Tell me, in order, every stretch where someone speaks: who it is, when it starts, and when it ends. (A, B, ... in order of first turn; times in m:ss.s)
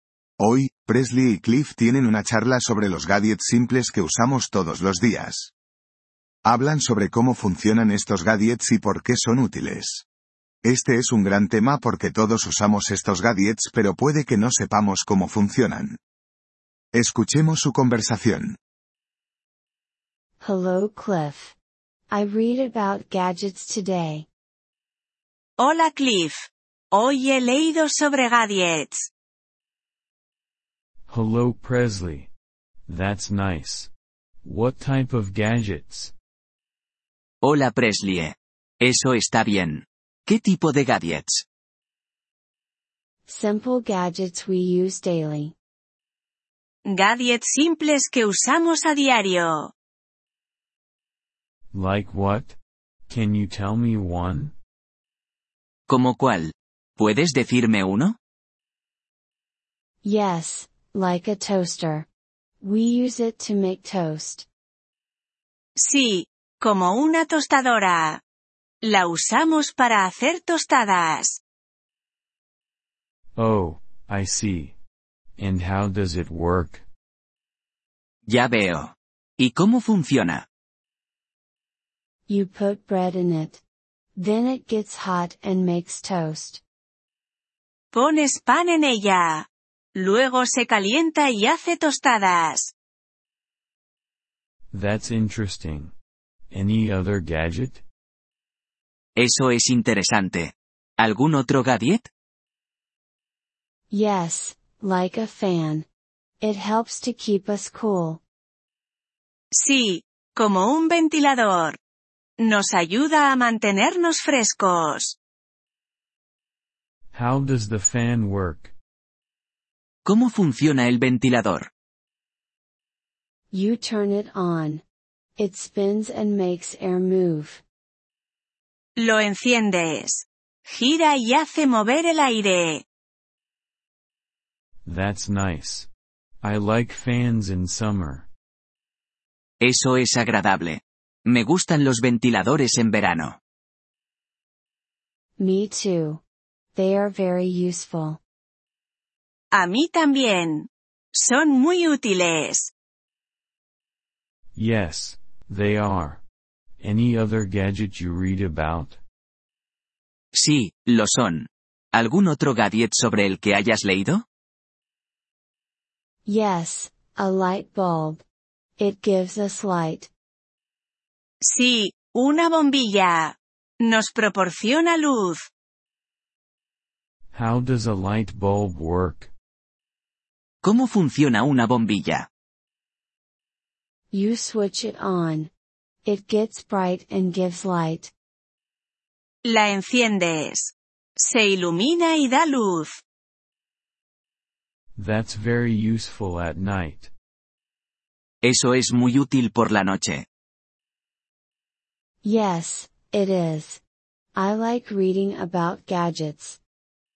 0:00.4-0:05.5 A
0:06.4-0:10.0 A
0:10.6-0:16.0 A
0:16.9-0:18.6 A
0:20.4-0:21.5 B
0:22.1-0:24.3 B
0:25.6-0:29.1 C
0:31.1-0:32.3 D
0:32.9-0:33.9 D
0:34.4-0:36.1 D
0:37.4-0:41.4 E
0:43.3-0:45.5 B
0:46.8-0:49.7 C
0:51.7-0:52.6 D
0:53.1-0:54.5 D
0:55.9-0:58.2 E
1:00.0-1:02.1 B
1:02.6-1:04.5 B
1:05.8-1:08.2 C
1:08.8-1:11.4 C
1:13.4-1:14.8 D
1:15.4-1:16.8 D
1:18.3-1:20.4 E
1:22.3-1:23.6 B
1:24.2-1:26.6 B
1:27.9-1:32.7 C
1:34.7-1:35.9 D
1:36.5-1:37.8 D
1:39.2-1:42.1 E
1:43.9-1:45.9 B
1:46.4-1:48.2 B
1:49.5-1:51.8 C
1:52.4-1:55.2 C
1:57.1-1:58.7 D
2:00.0-2:01.7 E
2:03.5-2:04.8 B
2:05.4-2:07.6 B
2:09.0-2:12.8 C
2:14.8-2:15.9 D
2:16.4-2:18.3 D
2:19.6-2:23.4 E
2:25.4-2:26.2 B
2:26.7-2:28.2 B
2:29.5-2:32.7 C
2:34.5-2:36.2 D
2:36.8-2:39.0 D
2:40.3-2:44.2 E
2:46.2-2:48.2 B
2:48.8-2:50.1 B
2:51.4-2:55.4 C
2:57.3-2:59.3 D
3:00.6-3:02.3 E
3:04.1-3:05.5 B
3:06.0-3:08.1 B
3:09.4-3:13.0 C
3:15.0-3:17.1 D
3:18.4-3:20.2 E
3:22.2-3:23.8 B
3:24.3-3:26.6 B